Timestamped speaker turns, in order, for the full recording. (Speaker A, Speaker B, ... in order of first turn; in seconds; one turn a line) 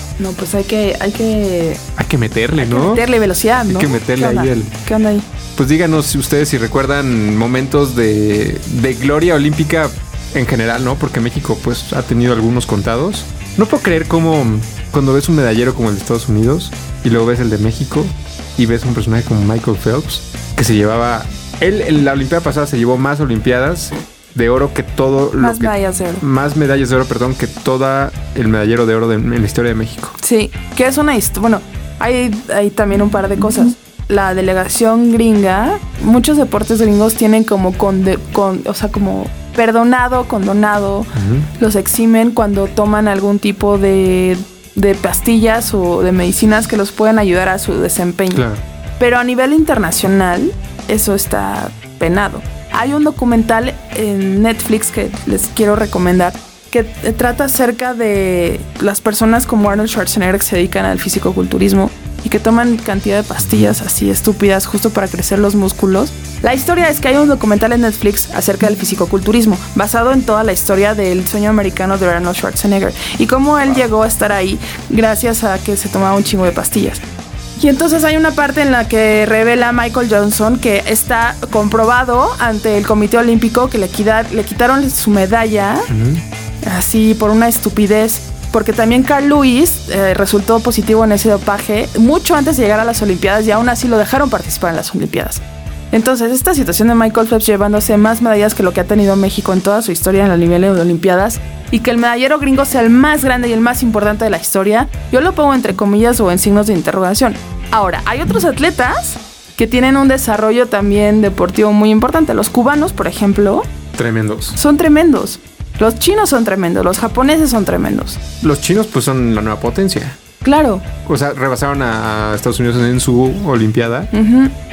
Speaker A: 0.2-1.8
Speaker B: 1.9-3.1
Speaker A: 2.6-5.2
Speaker B: 3.6-4.7
Speaker B: 5.5-30.1
Speaker A: 25.4-26.2
Speaker A: 30.2-48.5
Speaker B: 41.1-41.5
Speaker B: 48.3-48.6
Speaker A: 49.0-77.0
Speaker B: 63.4-63.8
Speaker A: 77.6-85.9
Speaker B: 85.9-86.2
Speaker A: 86.6-113.7
Speaker B: 113.9-114.6
Speaker A: 114.5-118.2
Speaker B: 118.4-120.2
Speaker A: 120.4-120.8
Speaker B: 121.0-124.1
Speaker A: 124.1-124.5